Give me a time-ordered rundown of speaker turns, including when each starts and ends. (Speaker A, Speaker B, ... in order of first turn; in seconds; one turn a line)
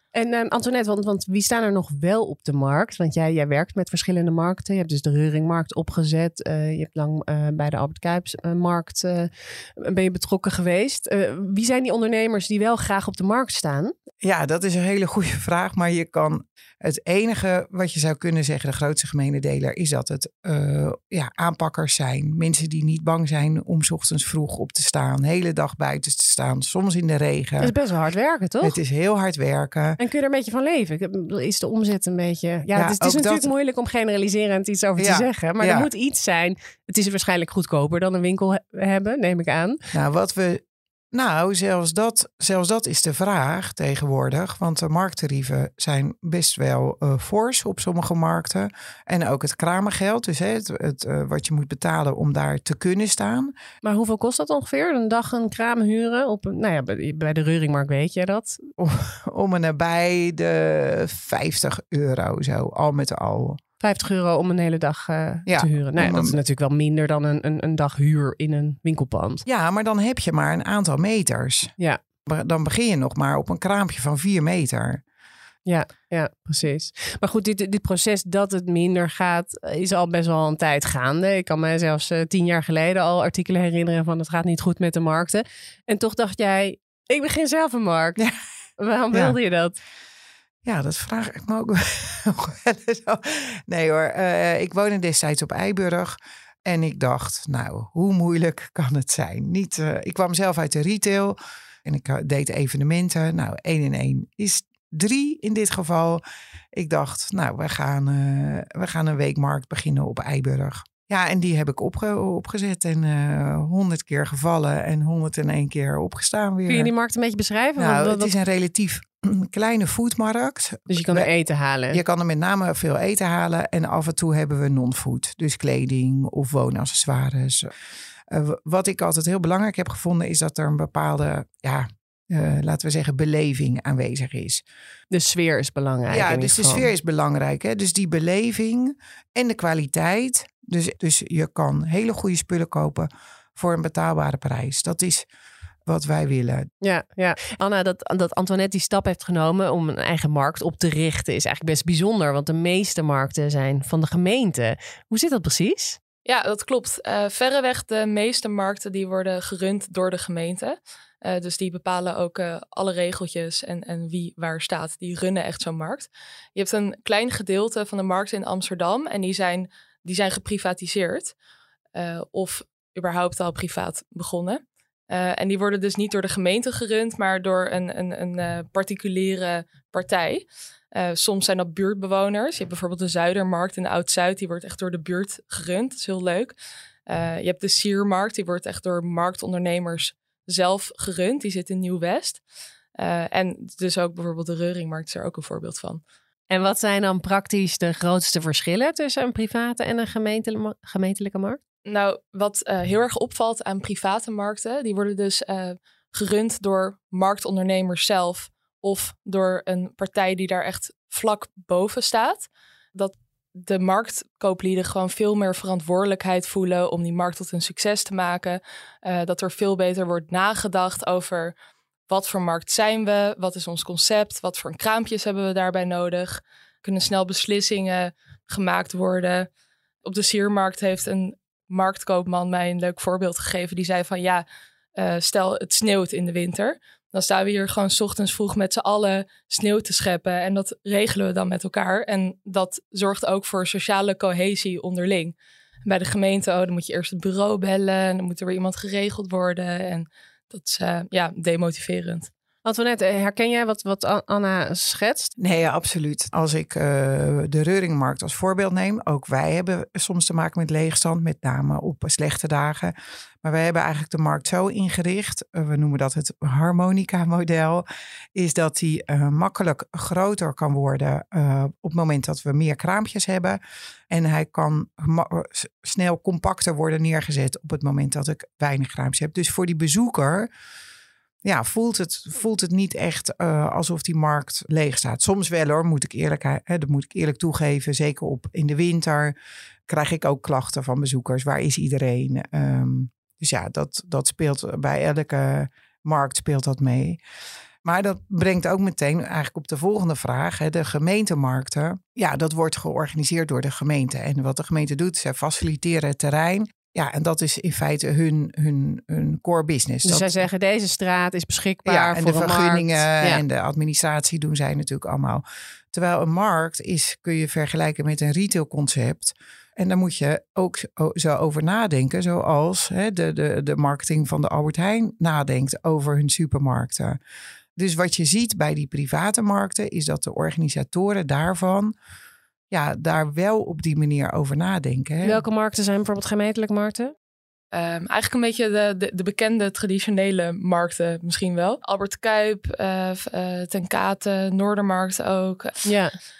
Speaker A: 0.1-13.9
Speaker B: 14.2-27.7
Speaker A: 27.6-28.8
Speaker B: 28.6-30.0
Speaker A: 30.0-39.8
Speaker B: 32.7-33.5
Speaker B: 35.0-35.9
Speaker B: 39.9-53.5
Speaker A: 53.8-58.7
Speaker B: 58.8-63.6
Speaker A: 63.8-69.4
Speaker B: 65.5-66.3
Speaker B: 69.5-71.7
Speaker B: 72.2-75.0
Speaker A: 75.7-88.2
Speaker A: 88.8-89.8
Speaker B: 89.1-89.4
Speaker B: 90.6-106.2
Speaker B: 106.7-116.9
Speaker A: 116.7-118.3
Speaker B: 117.8-121.3
Speaker A: 120.9-122.0
Speaker B: 121.9-127.7
Speaker B: 128.3-134.6
Speaker A: 135.1-136.9
Speaker B: 136.1-145.3
Speaker B: 145.8-146.7
Speaker A: 146.8-156.0
Speaker C: 156.2-171.3
Speaker C: 171.9-186.5
Speaker C: 187.1-192.4
Speaker C: 193.0-196.0
Speaker A: 196.5-201.6
Speaker C: 201.8-221.5
Speaker C: 222.1-229.5
Speaker C: 230.0-234.4
Speaker C: 234.9-252.3
Speaker A: 252.6-255.3
Speaker B: 255.4-273.6
Speaker B: 274.1-280.5
Speaker B: 281.4-289.3
Speaker B: 289.9-297.2
Speaker B: 297.8-310.4
Speaker A: 310.0-313.4
Speaker B: 311.8-327.2
Speaker B: 327.8-331.9
Speaker B: 332.7-335.4
Speaker A: 335.2-337.1
Speaker C: 337.7-345.9
Speaker A: 345.8-346.2